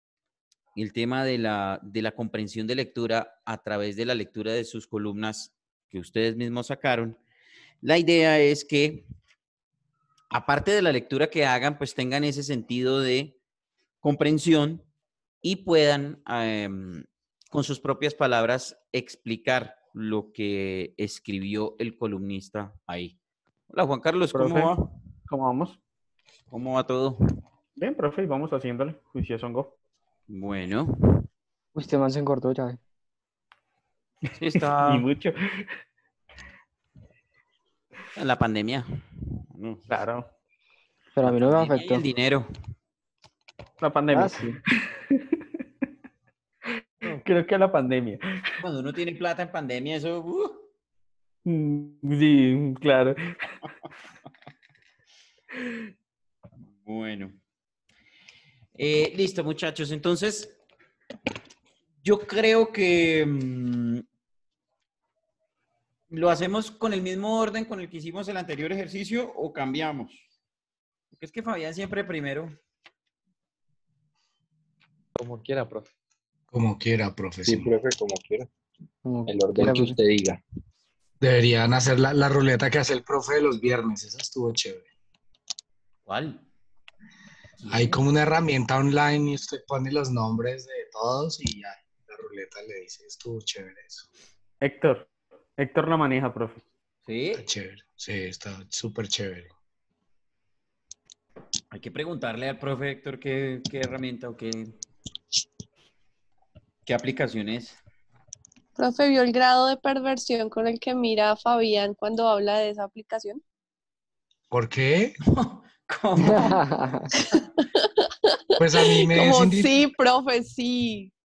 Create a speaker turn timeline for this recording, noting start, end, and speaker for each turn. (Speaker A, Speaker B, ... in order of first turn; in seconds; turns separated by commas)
Speaker A: 0.7-7.2, Speaker A: 7.8-9.1, Speaker A: 10.3-13.3, Speaker A: 14.0-14.9, Speaker A: 15.4-23.1, Speaker A: 23.7-24.9, Speaker B: 24.3-24.7, Speaker B: 25.3-25.8, Speaker A: 26.5-27.2, Speaker B: 27.8-29.7, Speaker A: 30.3-31.3, Speaker C: 31.7-32.8, Speaker A: 34.4-35.1, Speaker B: 34.5-35.7, Speaker A: 38.1-38.9, Speaker A: 39.5-39.9, Speaker B: 39.9-40.2, Speaker C: 41.1-42.0, Speaker A: 41.2-42.5, Speaker B: 43.8-45.4, Speaker C: 44.1-44.5, Speaker B: 46.8-48.2, Speaker A: 48.6-50.6, Speaker B: 51.5-53.2, Speaker B: 55.5-55.8, Speaker A: 56.7-57.4, Speaker A: 58.8-60.6, Speaker A: 62.0-64.0, Speaker A: 66.1-70.2, Speaker A: 71.2-72.5, Speaker D: 75.2-75.9, Speaker E: 76.5-77.7, Speaker D: 77.5-78.5, Speaker C: 79.0-80.0, Speaker D: 79.3-80.4, Speaker E: 81.2-84.9, Speaker A: 86.0-86.4, Speaker E: 87.7-94.0, Speaker B: 94.6-96.6, Speaker A: 97.0-97.4, Speaker E: 97.3-99.5, Speaker A: 101.7-104.7, Speaker A: 106.8-107.8, Speaker F: 108.8-113.4, Speaker E: 114.5-115.2, Speaker A: 115.3-116.7, Speaker C: 116.2-117.1, Speaker F: 117.4-121.1, Speaker E: 118.6-119.7